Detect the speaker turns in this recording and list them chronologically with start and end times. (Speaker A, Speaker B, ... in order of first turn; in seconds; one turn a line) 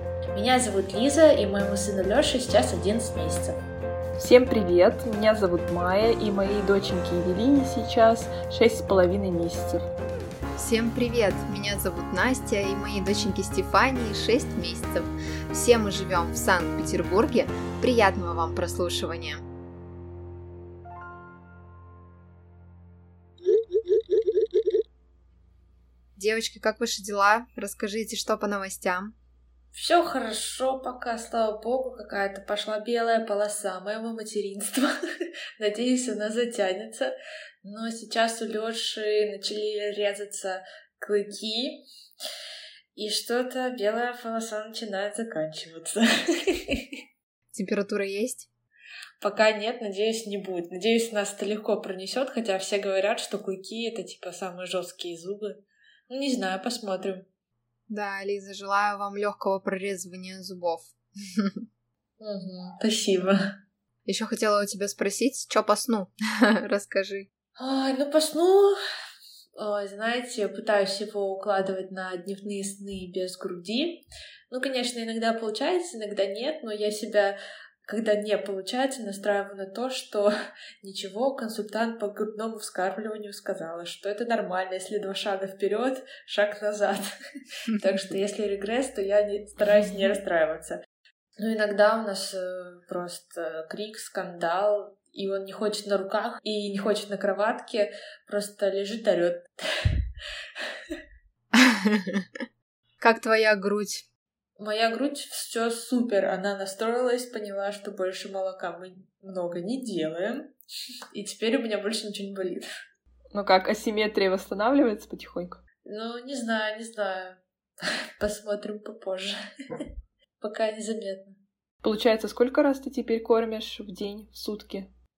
Speaker A: 0.3-3.6
Speaker B: 4.2-9.9
Speaker C: 10.6-19.4
Speaker C: 26.2-29.1
Speaker A: 29.7-34.9
Speaker A: 35.6-37.1
Speaker A: 37.6-41.8
Speaker A: 43.0-46.9
Speaker C: 47.5-48.5
Speaker A: 49.2-55.6
Speaker A: 56.1-57.3
Speaker C: 57.9-61.6
Speaker A: 62.2-63.4
Speaker C: 64.1-67.3
Speaker A: 67.6-68.8
Speaker A: 69.6-87.0
Speaker A: 87.7-90.8
Speaker A: 91.4-99.5
Speaker C: 101.5-102.2
Speaker C: 103.0-104.1
Speaker A: 104.6-110.5
Speaker A: 111.1-112.7
Speaker B: 113.3-115.6
Speaker A: 115.8-117.4
Speaker A: 118.2-119.3
Speaker A: 120.4-121.4
Speaker B: 121.8-124.9